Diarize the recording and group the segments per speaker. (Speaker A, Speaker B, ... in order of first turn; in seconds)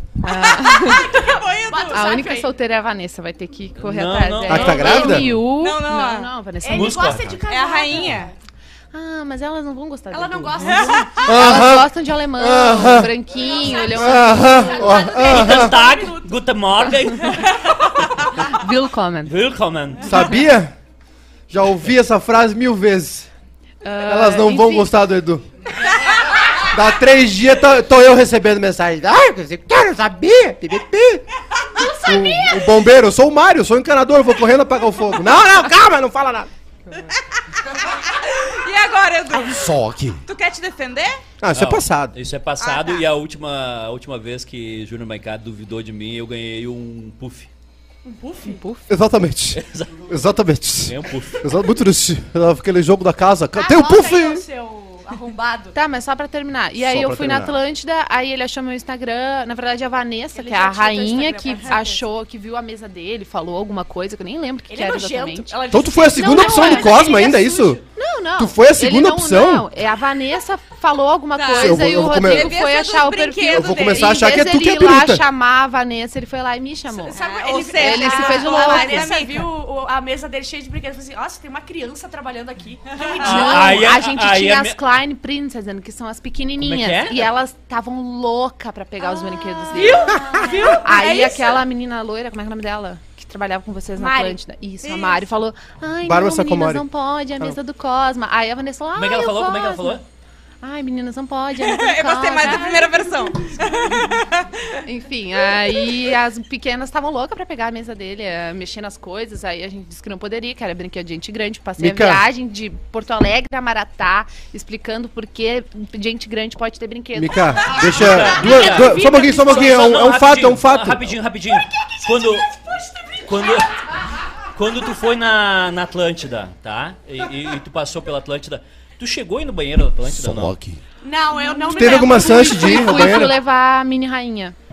Speaker A: 0.2-1.2, 1.9-7.2, 8.9-15.0, 18.4-19.4, 23.8-24.9, 48.5-48.9, 55.8-65.6, 66.1-67.2, 67.9-77.2, 77.7-79.1, 83.2-100.0, 100.6-102.8, 104.8-117.8, 131.4-134.6
Speaker B: 0.4-2.2, 5.5-6.3, 7.5-8.3, 10.6-11.3, 37.8-39.7, 40.3-41.2, 42.6-43.0, 71.3-74.2, 77.1-79.5, 83.0-83.2, 89.7-91.1, 94.8-95.2, 101.6-104.7
Speaker C: 0.6-2.5, 6.6-8.3, 10.1-11.6, 13.3-16.4, 31.8-32.7, 48.0-48.6, 53.5-55.8, 60.4-62.0, 64.7-67.8, 77.0-84.0, 89.0-91.6, 94.0-94.4, 102.4-104.0, 118.6-119.5, 131.0-133.3
Speaker D: 3.8-5.3, 6.7-7.4, 15.1-17.7, 19.3-20.3, 41.5-47.5, 49.5-50.1, 50.9-51.5, 83.2-84.8, 86.6-87.3, 99.0-100.0, 117.7-122.6, 123.2-123.9, 124.5-130.6
Speaker E: 4.5-5.3, 11.2-13.1, 13.9-15.8, 20.0-20.7, 21.5-23.3, 24.1-25.4, 26.7-31.2, 31.8-36.5, 39.4-40.2, 41.4-42.1, 48.9-54.5, 56.8-57.6, 65.7-67.8, 68.4-69.7, 71.6-72.5, 73.5-75.2, 96.0-96.8, 111.8-112.2, 117.2-121.2, 130.1-130.8, 131.7-133.4